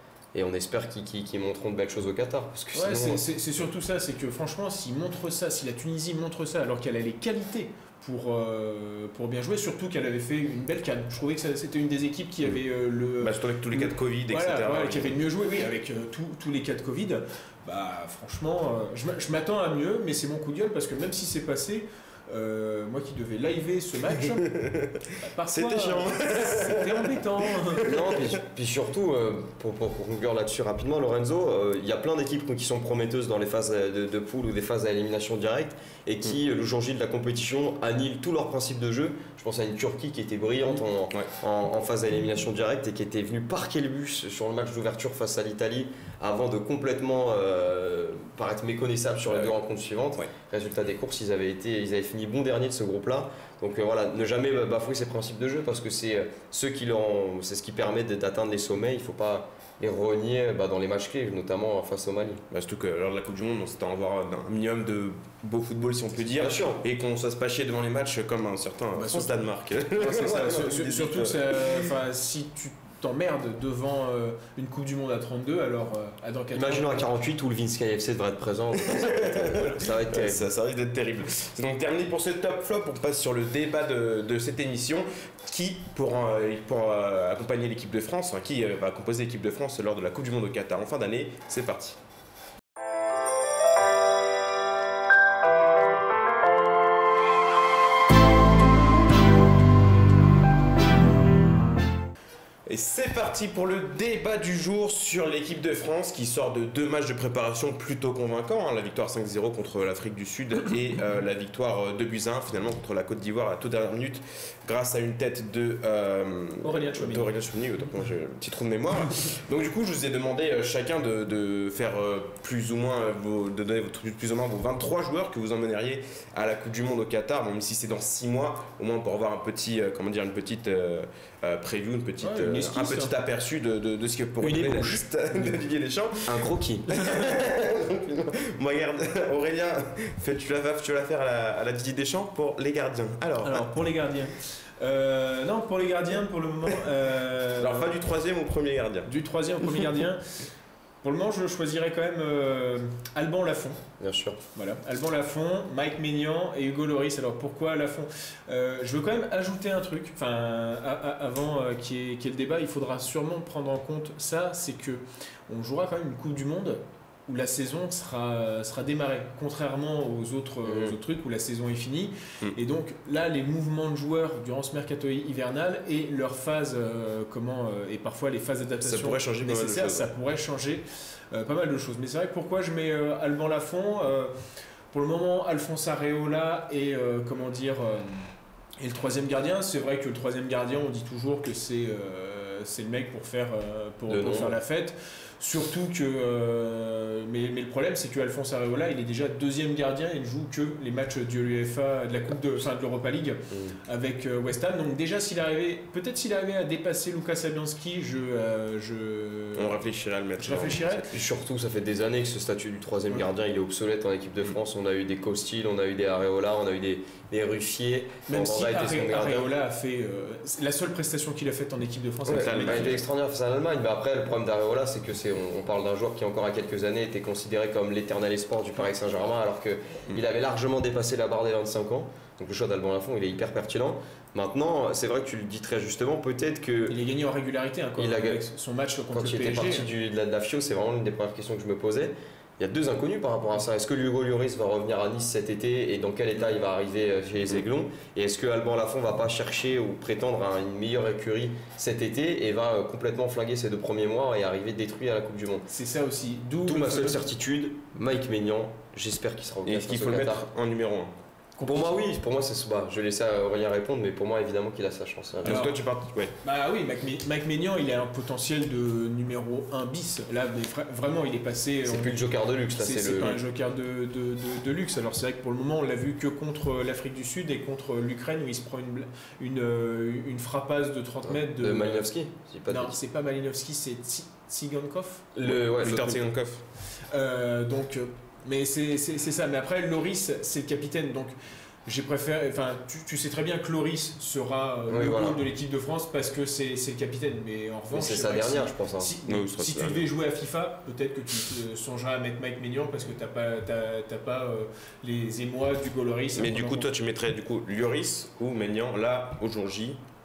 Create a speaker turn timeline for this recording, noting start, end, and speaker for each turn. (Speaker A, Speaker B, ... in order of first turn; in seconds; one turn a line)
Speaker A: 0.3-3.2
Speaker B: 2.7-24.5
Speaker C: 13.2-15.2
Speaker C: 24.4-27.2
Speaker B: 25.2-28.0
Speaker A: 27.8-62.4
Speaker C: 62.5-71.9
Speaker A: 66.3-66.8
Speaker B: 69.0-77.1
Speaker A: 70.0-70.7
Speaker A: 76.5-80.5
Speaker C: 78.8-92.0
Speaker C: 102.7-143.7
Speaker B: 116.6-117.3
Speaker B: 132.2-133.1
Speaker B: 134.4-135.6
Speaker A: 136.3-136.9
Speaker B: 137.0-137.3
Speaker B: 143.4-147.9
Speaker C: 147.6-149.1
Speaker B: 149.1-150.4
Speaker B: 151.0-153.8
Speaker A: 154.0-154.4
Speaker B: 154.6-184.3
Speaker A: 170.6-171.0
Speaker C: 178.8-180.1
Speaker B: 184.9-188.3
Speaker B: 188.8-209.8
Speaker A: 194.1-194.6
Speaker A: 203.5-203.8
Speaker C: 209.6-211.1
Speaker B: 210.4-211.1
Speaker A: 211.1-219.5
Speaker B: 218.3-223.0
Speaker A: 222.3-237.0
Speaker C: 222.3-223.0
Speaker B: 236.9-239.9
Speaker A: 238.0-238.4
Speaker A: 239.1-255.7
Speaker B: 255.7-257.2
Speaker A: 256.6-260.4
Speaker C: 259.6-261.1
Speaker B: 261.6-261.8
Speaker A: 261.6-265.6
Speaker C: 265.4-266.3
Speaker B: 265.5-265.8
Speaker B: 266.4-272.2
Speaker A: 271.9-273.4
Speaker B: 272.8-282.1
Speaker A: 281.3-283.0
Speaker B: 282.7-285.3
Speaker A: 285.4-286.2
Speaker C: 285.4-286.6
Speaker B: 287.1-291.4
Speaker B: 291.9-306.9
Speaker A: 294.9-295.4
Speaker A: 297.9-299.1
Speaker C: 299.3-300.1
Speaker C: 306.4-310.0